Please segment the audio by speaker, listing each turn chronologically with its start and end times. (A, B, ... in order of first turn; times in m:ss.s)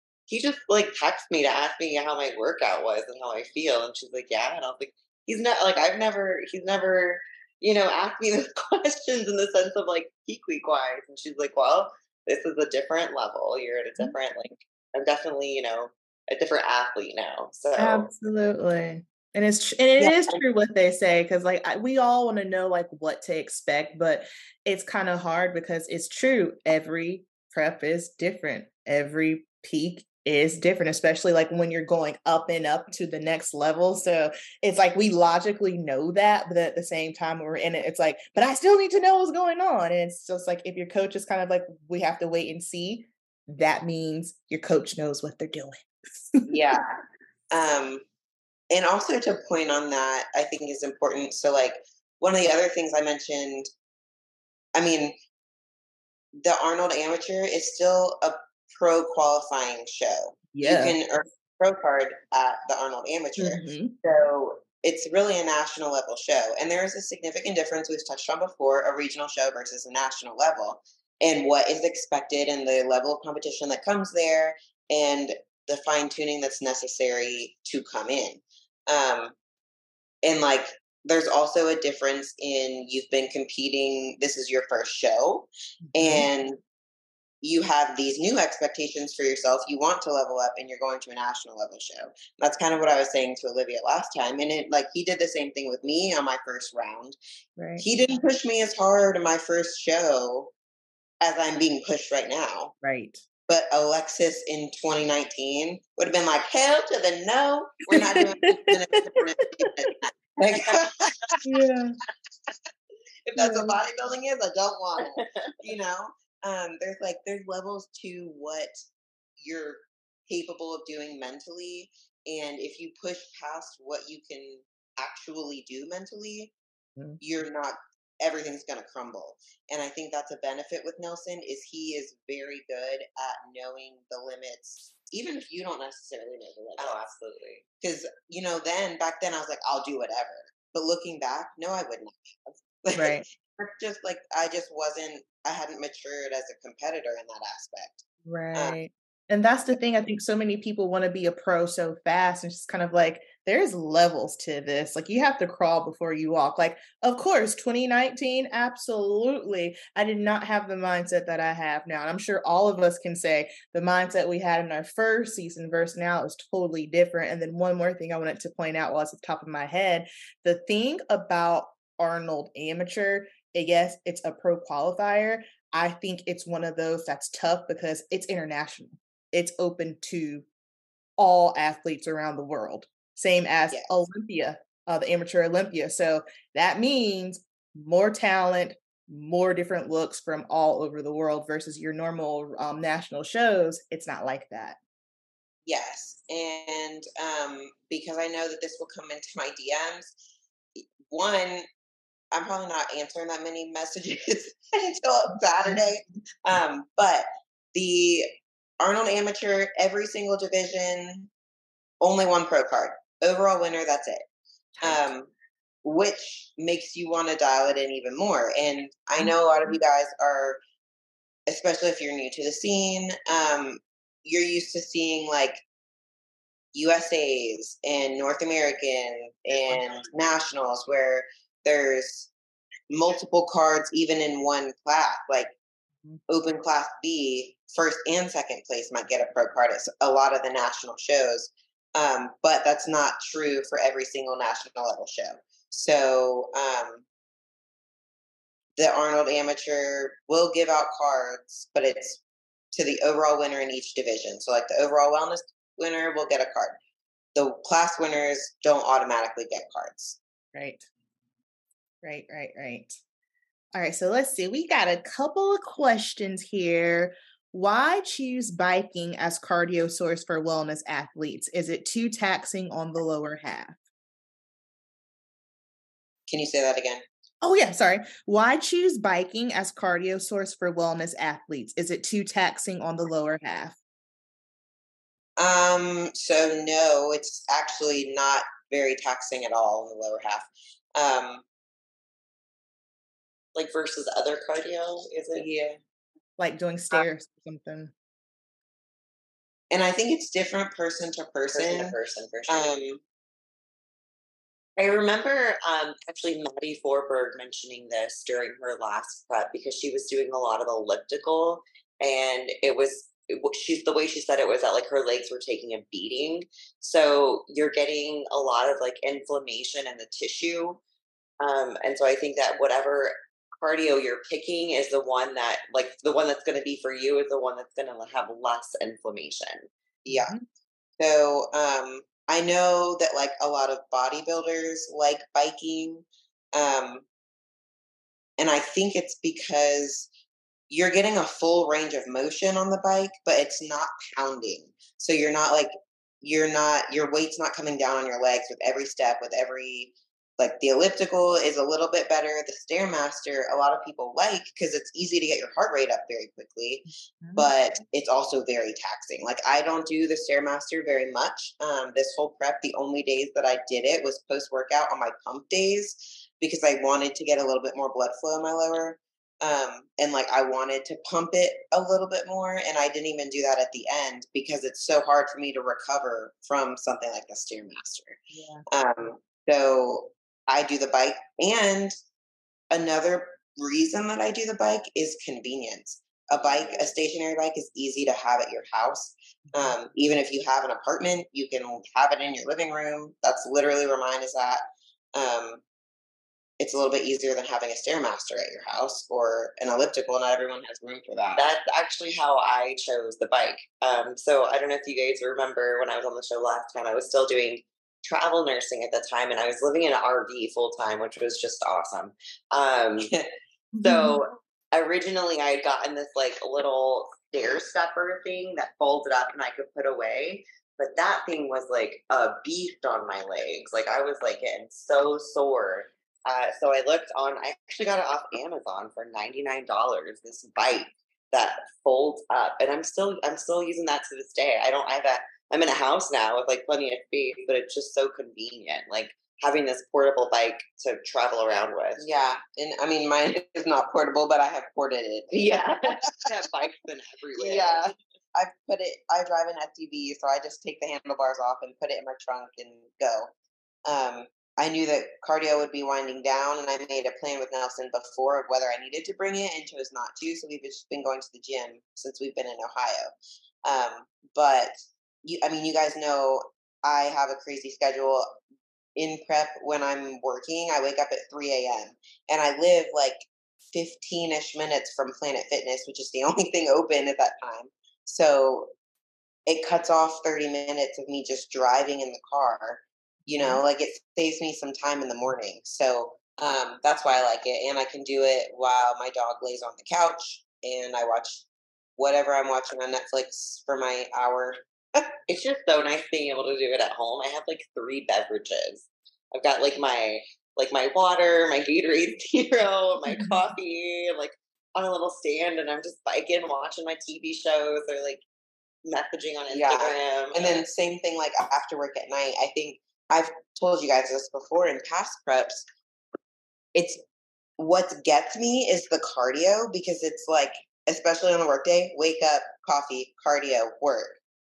0:00.3-0:18.1 A
0:17.8-0:46.5 B
0:46.5-0:46.9 C
0:47.5-0:48.0 C
0:48.7-0:53.7 C
0:54.7-0:55.1 C
0:56.4-1:19.3 C
1:00.5-1:01.0 B
1:03.4-1:03.9 B
1:20.2-1:26.6 C
1:25.9-1:26.3 B
1:27.4-1:37.2 C
1:37.6-1:37.9 B
1:37.8-1:40.5 C
1:41.2-1:42.7 C
1:42.8-1:43.2 B
1:43.5-1:51.4 C
1:47.9-1:49.9 B
1:51.4-1:52.0 B
1:53.3-1:58.8 C
1:53.4-1:53.8 B
1:55.0-1:55.6 A
1:59.4-2:06.5 C
2:07.2-2:17.1 C
2:16.8-2:17.6 A
2:17.8-2:28.8 C
2:23.0-2:23.2 B
2:28.2-3:00.4 B
3:01.2-3:14.8 B
3:15.6-3:20.1 C
3:20.8-3:21.6 C
3:22.3-3:31.3 C
3:32.0-3:34.2 C
3:34.8-3:35.3 C
3:35.8-3:40.6 C
3:41.5-3:45.6 C
3:46.7-3:52.3 C
3:52.9-3:55.5 C
3:56.3-4:07.0 C
4:08.8-4:12.2 C
4:12.7-4:16.8 C
4:17.3-4:20.2 C
4:20.5-4:20.8 B
4:22.0-4:23.0 B
4:23.7-4:33.8 B
4:36.3-4:37.0 C
4:37.4-4:43.8 B
4:45.4-4:51.4 C
4:53.6-4:55.5 A
4:55.3-4:55.8 C
4:56.4-4:57.9 B
4:59.7-5:01.9 C
5:01.5-5:02.8 A
5:02.5-5:03.0 C
5:04.8-5:20.8 A
5:21.4-5:29.7 A
5:30.0-5:30.3 C
5:30.1-5:30.4 B
5:31.0-5:37.0 C
5:38.4-5:40.1 C
5:40.7-6:21.9 C
5:57.2-5:57.5 B
6:18.3-6:18.6 B
6:22.7-6:34.6 C
6:35.2-6:35.6 C
6:36.6-6:41.4 C
6:41.3-6:53.1 A
6:53.7-6:54.2 B
6:53.8-7:22.0 A
7:22.0-7:26.1 C
7:25.3-7:27.8 A
7:27.4-7:33.3 C
7:33.9-7:43.1 C
7:43.6-7:48.4 C
7:49.0-7:58.7 C
7:59.4-8:11.4 C
8:03.2-8:03.6 B
8:12.0-8:15.0 C
8:15.3-8:28.2 A
8:23.1-8:23.4 B
8:28.9-8:30.6 A
8:29.5-8:35.6 C
8:36.7-8:37.0 C
8:37.6-8:44.2 C